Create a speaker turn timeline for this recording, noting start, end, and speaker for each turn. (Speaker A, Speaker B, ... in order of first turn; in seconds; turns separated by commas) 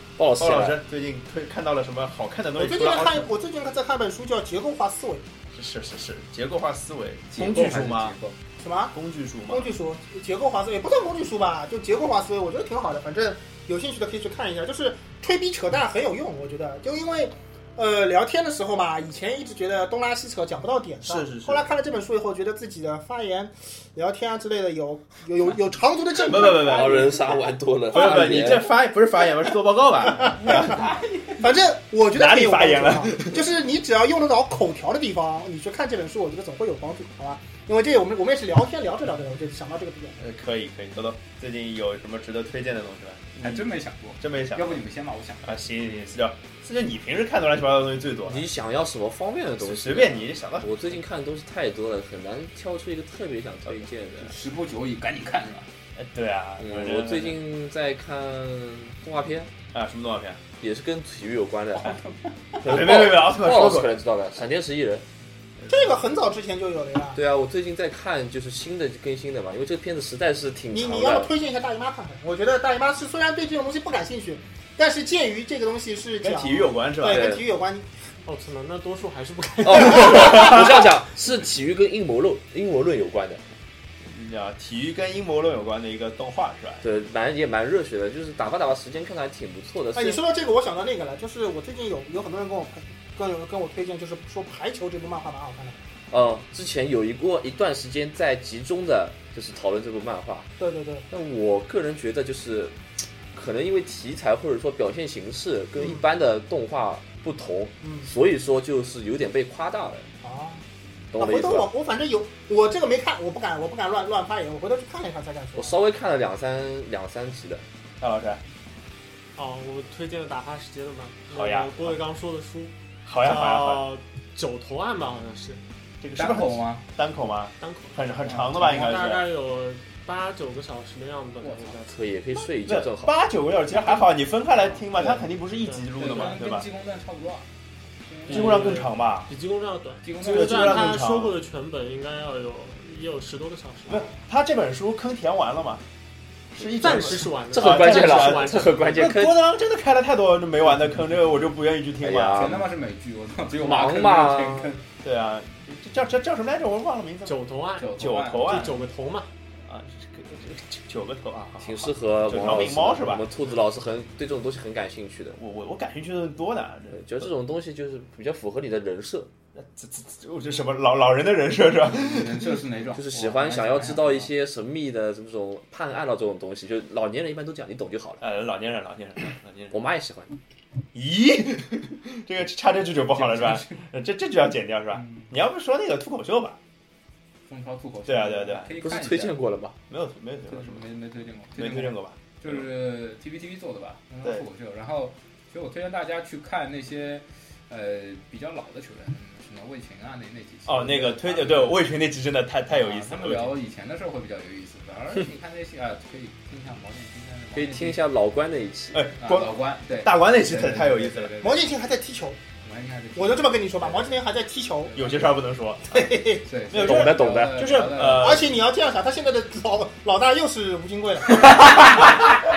Speaker A: 0.2-0.8, Speaker B: 0.4-3.3, Speaker C: 2.5-5.2, Speaker B: 5.5-8.2, Speaker D: 7.3-8.3, Speaker C: 8.6-8.9, Speaker B: 8.9-9.7, Speaker C: 9.5-27.0, Speaker B: 21.0-21.6, Speaker B: 26.1-27.1, Speaker A: 26.6-28.7, Speaker B: 27.9-31.0, Speaker C: 27.9-28.4, Speaker C: 30.2-30.6, Speaker D: 30.7-31.2, Speaker C: 31.4-40.2, Speaker B: 32.1-33.5, Speaker B: 40.2-44.8, Speaker D: 43.4-45.6, Speaker B: 45.4-48.5, Speaker A: 48.3-54.3, Speaker B: 49.6-51.0, Speaker D: 54.2-55.7, Speaker B: 56.0-57.4, Speaker A: 56.6-59.5, Speaker B: 59.7-60.4, Speaker A: 60.6-62.0, Speaker D: 61.8-62.6, Speaker A: 62.6-65.0, Speaker B: 62.6-63.9, Speaker C: 65.7-67.2, Speaker A: 67.1-71.3, Speaker C: 70.7-77.8, Speaker B: 76.2-77.3, Speaker A: 77.0-77.4, Speaker E: 78.2-80.4, Speaker A: 79.6-83.4, Speaker B: 84.0-86.8, Speaker A: 86.8-90.2, Speaker C: 89.9-95.8, Speaker A: 96.1-100.5, Speaker C: 100.6-101.0, Speaker A: 101.1-102.8, Speaker A: 103.3-110.1, Speaker C: 107.8-108.1, Speaker C: 110.2-110.6, Speaker A: 111.1-111.7, Speaker C: 111.2-115.8, Speaker A: 115.5-117.6, Speaker B: 118.0-118.4, Speaker E: 119.3-125.6, Speaker B: 121.3-121.9, Speaker B: 123.0-123.9, Speaker B: 126.0-129.2, Speaker D: 126.2-126.8, Speaker E: 127.6-131.9, Speaker D: 128.2-129.1, Speaker D: 131.4-131.8, Speaker A: 131.9-133.1, Speaker B: 132.7-136.7, Speaker D: 134.9-135.3, Speaker E: 135.6-135.9, Speaker D: 135.9-137.4, Speaker D: 138.1-138.8, Speaker E: 138.3-144.1, Speaker B: 138.3-139.3, Speaker D: 140.0-140.9, Speaker B: 140.2-141.3, Speaker B: 143.9-145.8, Speaker B: 146.5-152.6, Speaker E: 146.8-148.9, Speaker A: 147.1-149.4, Speaker A: 152.0-152.7, Speaker D: 152.3-154.8, Speaker A: 153.6-154.7, Speaker B: 155.0-157.4, Speaker E: 157.2-159.3, Speaker D: 157.8-158.7, Speaker B: 157.9-158.8, Speaker B: 159.7-163.3, Speaker A: 161.6-165.4, Speaker B: 165.3-167.3, Speaker A: 166.9-169.3, Speaker B: 169.6-172.5, Speaker D: 171.8-174.3, Speaker A: 172.9-178.2, Speaker B: 178.2-179.8, Speaker A: 179.7-180.3, Speaker B: 180.9-186.6, Speaker D: 183.1-183.8, Speaker D: 184.9-185.3, Speaker D: 187.4-189.4, Speaker B: 188.1-188.7, Speaker A: 188.8-189.7, Speaker B: 189.9-190.8, Speaker D: 190.5-201.8, Speaker B: 191.6-192.6, Speaker B: 200.7-203.5, Speaker D: 202.7-208.0, Speaker A: 207.5-209.1, Speaker B: 208.9-211.3, Speaker D: 209.2-211.7, Speaker C: 211.4-212.4, Speaker D: 212.6-214.2, Speaker C: 213.1-214.9, Speaker D: 214.8-215.3, Speaker B: 214.9-216.1, Speaker C: 215.9-216.4, Speaker D: 216.4-218.6, Speaker B: 216.7-218.5, Speaker A: 216.7-217.7, Speaker C: 218.1-222.2